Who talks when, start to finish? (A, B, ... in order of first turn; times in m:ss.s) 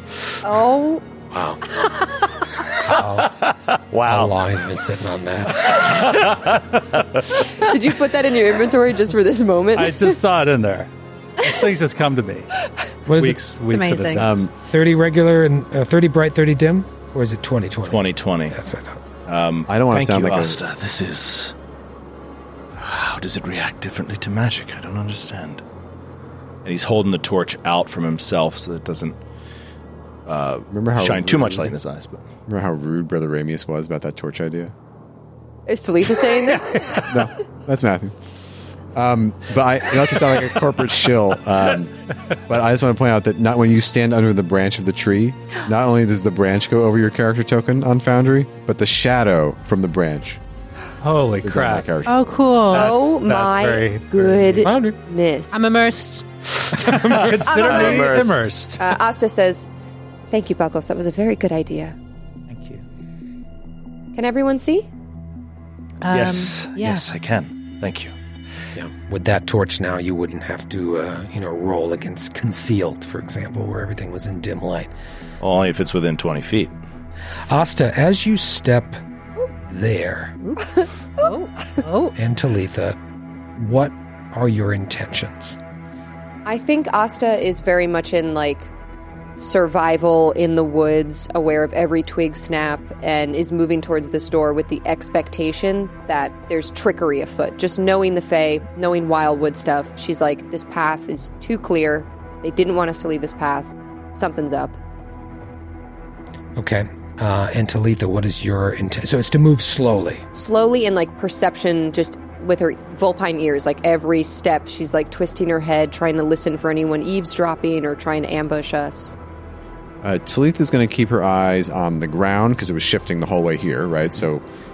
0:00.4-0:01.0 A
0:01.3-0:01.6 B
0:02.8-0:03.4 B
0:03.3-0:04.3 C
0:04.0-0:05.8 B
0:05.7-0:07.2 C
0:07.6-0:10.2 A
0:09.7-0:12.5 D
0:13.1-0:13.4 B
0:13.2-0:14.4 D
0:13.6-0:14.3 E
0:14.2-0:14.5 F
0:14.6-0:19.0 B
0:17.8-0:18.5 C
0:19.2-0:21.5 C
0:19.7-0:20.6 F
0:22.8-0:25.6 C
0:26.6-0:29.2 C
0:30.2-0:32.2 C
0:30.7-0:31.7 F
0:32.5-0:34.7 F
0:35.7-0:37.1 A
0:37.1-0:38.1 F
0:38.9-0:41.9 F
0:42.5-0:50.4 F
0:51.0-0:51.9 D
0:51.4-0:52.3 F
0:52.0-0:52.9 E
0:52.7-0:54.7 D
0:52.7-0:55.7 A
0:54.6-0:54.9 B
0:55.5-0:56.2 E
0:56.7-0:59.0 D
0:56.9-0:58.5 C
0:57.5-0:59.7 A
1:00.3-1:02.0 A
1:02.5-1:02.8 D
1:04.1-1:04.9 A
1:06.0-1:07.0 E
1:06.1-1:08.1 C
1:08.8-1:14.9 B
1:15.4-1:16.7 C
1:17.5-1:19.0 B
1:19.6-1:20.4 B
1:21.2-1:22.1 E
1:22.2-1:23.0 B
1:23.6-1:25.6 B
1:26.4-1:28.7 A
1:29.4-1:44.8 A
1:46.6-1:50.2 B
1:50.3-1:59.1 A
2:00.0-2:04.4 F